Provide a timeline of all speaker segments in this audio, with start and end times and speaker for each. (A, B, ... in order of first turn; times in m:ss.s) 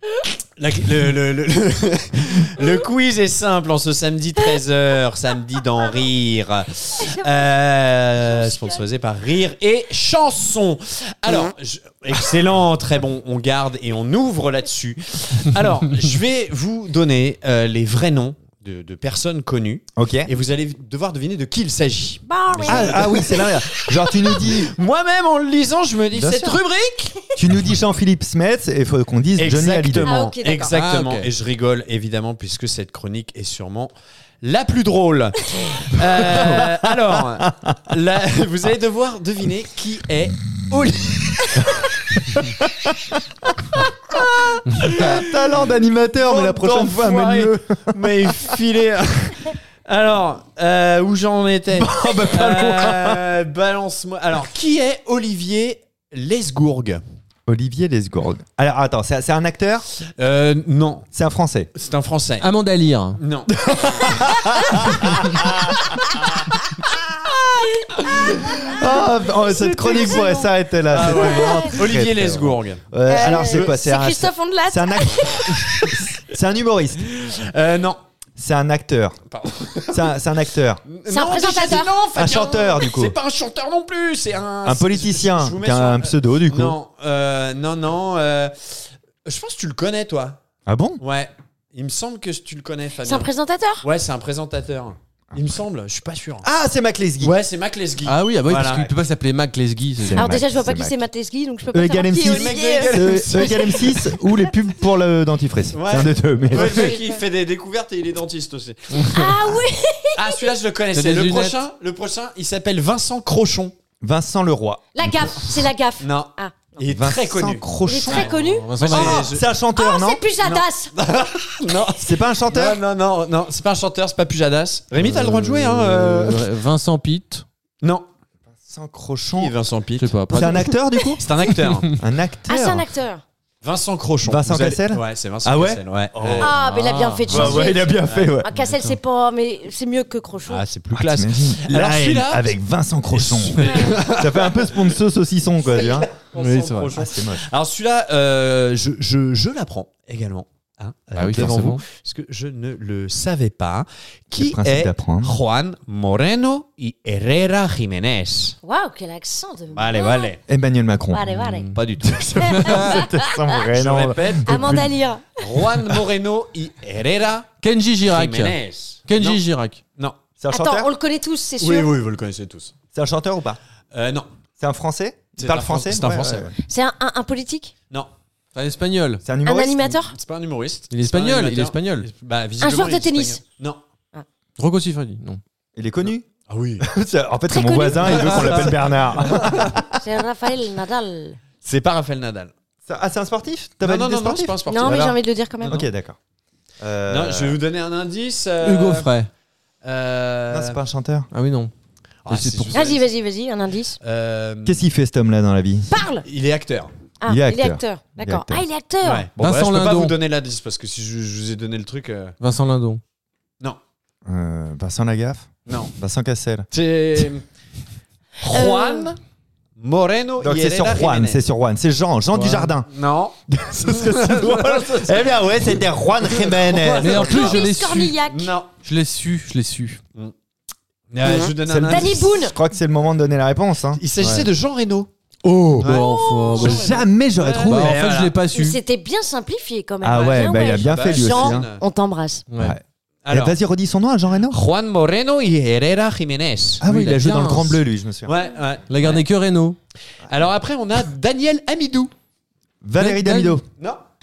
0:00.6-0:27.2 A
0:08.4-0:08.8 B
0:20.0-0:20.3 C
0:22.2-0:23.4 B
0:22.6-0:24.7 C
0:26.1-0:26.6 C
0:27.4-0:30.1 C
0:29.4-0:41.8 A
0:30.0-0:30.7 B
0:30.7-0:31.3 D
0:36.3-0:37.7 C
0:41.8-0:43.2 C
0:43.8-0:48.5 C
0:44.7-0:45.3 A
0:46.2-0:57.0 A
0:51.7-0:53.2 C
0:57.5-0:59.8 C
1:00.2-1:01.1 A
1:01.1-1:01.7 C
1:01.7-1:02.5 A
1:02.4-1:03.2 D
1:03.2-1:03.6 A
1:03.6-1:06.0 C
1:07.8-1:08.8 B
1:08.2-1:08.7 A
1:08.4-1:17.1 C
1:09.5-1:11.8 B
1:09.8-1:10.3 A
1:10.9-1:13.7 A
1:13.1-1:16.0 B
1:17.0-1:18.0 A
1:18.4-1:19.2 C
1:19.3-1:20.2 A
1:19.9-1:20.8 C
1:20.9-1:30.4 A
1:21.1-1:22.0 B
1:22.1-1:23.1 C
1:24.6-1:26.8 C
1:30.7-1:31.0 C
1:31.0-1:33.3 A
1:33.0-1:33.8 B
1:33.8-1:36.5 A
1:36.4-1:37.3 C
1:37.2-1:38.9 A
1:38.0-1:40.4 D
1:40.0-1:41.0 C
1:40.2-1:44.3 B
1:41.7-1:47.0 C
1:42.2-1:44.0 A
1:45.7-1:49.3 A
1:46.6-1:47.1 B
1:48.9-1:49.2 D
1:49.1-1:50.5 B
1:50.1-1:53.7 A
1:50.9-1:51.6 D
1:54.0-1:55.5 C
1:54.9-1:56.6 B
1:56.0-1:59.5 A
1:56.9-2:00.2 C
1:57.8-2:00.9 B
1:58.4-1:59.3 D
2:00.4-2:06.5 A
2:02.0-2:02.8 C
2:05.0-2:07.4 D
2:08.6-2:09.5 C
2:09.4-2:10.6 A
2:10.0-2:10.7 D
2:10.3-2:12.9 C
2:11.2-2:11.9 A
2:12.5-2:13.2 B
2:13.6-2:16.6 A
2:14.2-2:16.5 C
2:16.4-2:20.6 B
2:16.6-2:17.5 D
2:17.3-2:18.3 A
2:17.3-2:18.6 C
2:20.5-2:22.5 A
2:20.9-2:26.1 C
2:23.1-2:25.0 A
2:23.6-2:24.0 B
2:25.7-2:38.6 A
2:26.4-2:26.9 D
2:26.9-2:27.5 C
2:31.2-2:31.8 D
2:34.3-2:35.3 C
2:38.6-2:40.3 B
2:39.7-2:40.4 A
2:40.5-2:41.4 C
2:41.1-2:41.7 B
2:41.3-2:43.0 D
2:41.8-2:42.2 A
2:42.0-2:44.9 C
2:42.4-2:43.5 B
2:43.7-2:44.8 A
2:44.4-2:45.6 B
2:45.4-2:47.5 A
2:47.6-2:48.6 D
2:48.0-2:49.4 A
2:49.1-2:49.8 D
2:50.4-2:50.9 C
2:50.5-2:51.9 B
2:51.6-2:52.7 A
2:52.9-2:53.6 C
2:53.9-2:54.3 A
2:54.6-2:56.5 C
2:55.4-2:56.5 A
2:56.6-2:57.7 B
2:58.5-2:59.2 D
2:59.2-3:00.0 C
2:59.4-3:00.1 B
3:00.1-3:03.8 A
3:00.9-3:02.1 D
3:02.6-3:03.4 B
3:04.6-3:05.4 D
3:05.8-3:06.2 C
3:06.5-3:06.9 A
3:06.8-3:10.0 C
3:07.5-3:08.7 B
3:08.0-3:09.7 A
3:09.9-3:11.4 B
3:11.6-3:12.5 A
3:12.8-3:16.2 C
3:13.8-3:15.9 A
3:14.7-3:15.8 B
3:16.8-3:17.6 C
3:17.1-3:19.1 A
3:18.6-3:19.3 D
3:19.8-3:20.8 A
3:20.5-3:21.3 C
3:21.3-3:21.7 D
3:22.2-3:23.0 A
3:22.3-3:22.8 D
3:22.7-3:24.0 B
3:24.0-3:24.8 A
3:24.6-3:25.9 C
3:25.9-3:26.2 B
3:26.2-3:26.9 A
3:27.2-3:29.3 B
3:27.2-3:28.6 C
3:29.0-3:32.3 A
3:29.4-3:30.2 D
3:32.4-3:33.0 D
3:34.3-3:36.7 C
3:35.6-3:35.9 A
3:36.7-3:37.4 A
3:38.4-3:39.2 A
3:38.4-3:39.1 B
3:39.8-3:41.4 A
3:40.4-3:42.9 C
3:42.3-3:42.7 D
3:42.8-3:47.7 A
3:43.5-3:47.3 C
3:47.0-3:48.2 D
3:47.1-3:48.5 B
3:48.3-3:48.7 A
3:48.8-3:50.0 D
3:51.1-3:52.3 A
3:51.6-3:54.0 C
3:51.9-3:52.6 B
3:54.0-3:55.1 A
3:54.2-3:54.5 D
3:55.6-3:57.0 D
3:55.8-3:58.4 A
3:55.9-3:56.8 B
3:56.6-3:58.0 C
3:57.7-3:58.8 D
3:58.5-4:02.4 B
4:00.0-4:01.7 C
4:00.1-4:01.8 A
4:02.5-4:02.8 D
4:02.6-4:04.6 C
4:03.2-4:03.6 A
4:04.5-4:06.8 A
4:06.8-4:08.3 C
4:06.8-4:07.8 D
4:08.2-4:09.2 A
4:08.9-4:09.8 D
4:10.3-4:12.1 A
4:12.8-4:13.6 C
4:13.0-4:13.6 D
4:13.8-4:14.0 A